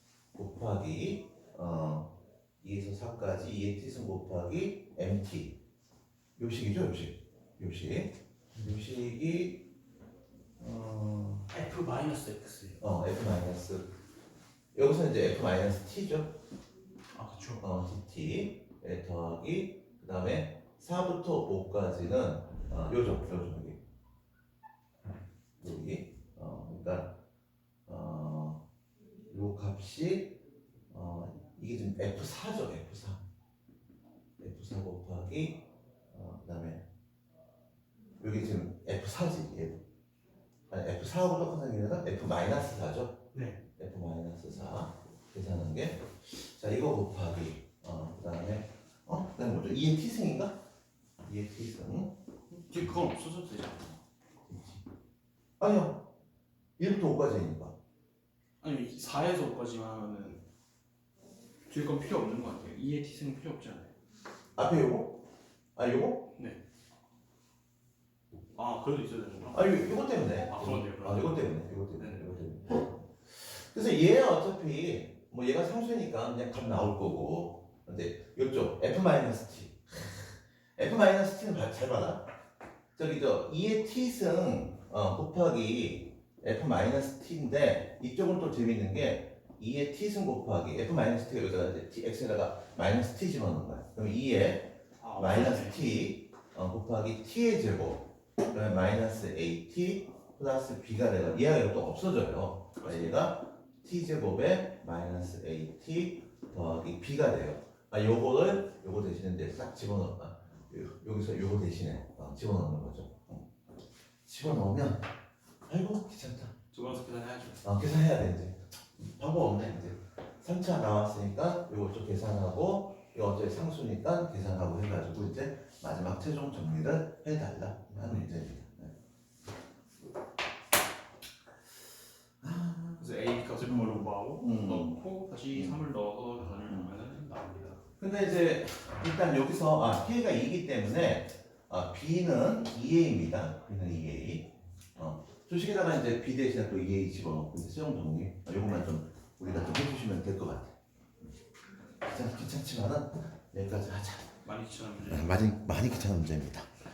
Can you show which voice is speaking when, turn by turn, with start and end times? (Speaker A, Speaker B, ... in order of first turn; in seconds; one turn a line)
Speaker A: 0.3-5.6
Speaker A: 6.4-9.7
Speaker A: 10.6-11.5
Speaker B: 11.5-12.8
Speaker A: 12.8-13.9
Speaker A: 14.7-16.4
Speaker B: 17.1-17.7
Speaker A: 17.6-23.8
Speaker A: 25.6-27.1
Speaker A: 27.9-28.6
Speaker A: 29.3-30.4
Speaker A: 30.9-33.2
Speaker A: 34.4-36.8
Speaker A: 38.2-39.8
Speaker A: 40.7-43.2
Speaker B: 43.3-43.6
Speaker A: 43.8-50.6
Speaker A: 51.2-52.1
Speaker B: 52.5-54.0
Speaker A: 54.5-54.8
Speaker A: 55.6-56.0
Speaker A: 56.8-57.8
Speaker B: 58.6-60.4
Speaker B: 61.7-63.9
Speaker A: 64.6-65.2
Speaker A: 65.8-66.3
Speaker B: 68.5-72.5
Speaker A: 69.5-82.3
Speaker A: 83.0-113.4
Speaker B: 95.0-95.8
Speaker B: 102.8-103.2
Speaker A: 114.3-115.0
Speaker A: 115.7-116.5
Speaker B: 116.7-117.7
Speaker A: 117.6-128.9
Speaker B: 128.0-128.3
Speaker A: 132.4-135.0
Speaker B: 133.0-137.8
Speaker A: 135.5-135.8
Speaker A: 136.6-136.9
Speaker A: 138.0-150.8
Speaker A: 152.0-154.3
Speaker B: 154.4-155.4
Speaker A: 155.0-156.7